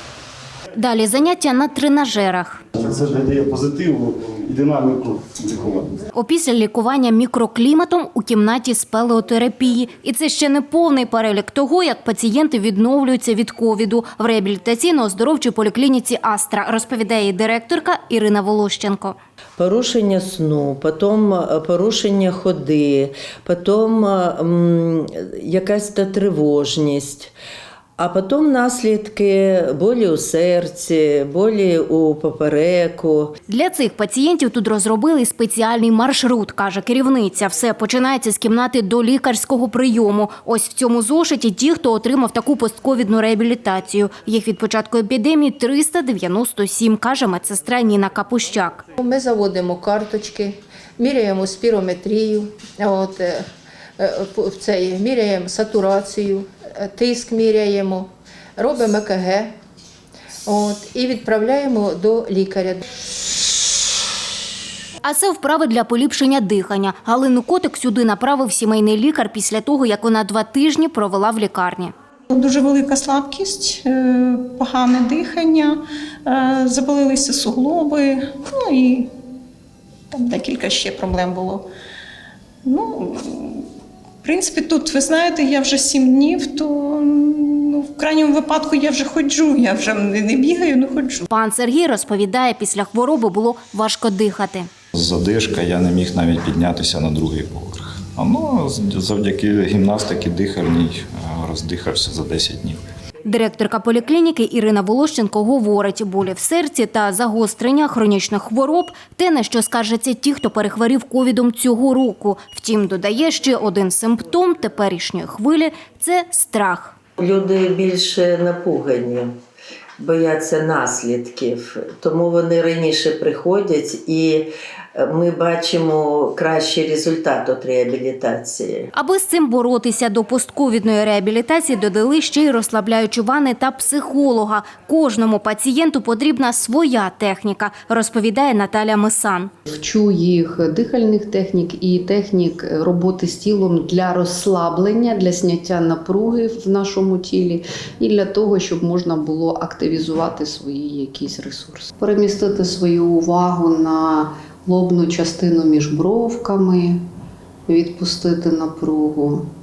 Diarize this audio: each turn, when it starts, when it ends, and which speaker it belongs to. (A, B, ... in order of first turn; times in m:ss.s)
0:00.7-0:02.6 A
0:02.8-0:06.0 B
0:06.1-0:19.2 A
0:19.6-0:27.3 C
0:28.0-0:33.3 C
0:33.5-0:48.8 A
0:49.0-0:53.4 D
0:54.0-0:59.5 D
1:00.5-1:02.8 D
1:05.0-1:11.9 A
1:12.3-1:19.1 E
1:20.1-1:21.7 E
1:22.6-1:23.7 E
1:24.2-1:31.2 E
1:31.3-1:34.7 A
1:34.9-1:42.8 F
1:43.3-1:57.0 A
1:57.2-1:59.3 C
2:00.0-2:08.9 C
2:09.0-2:19.5 A
2:19.7-2:37.0 G
2:37.7-2:39.5 G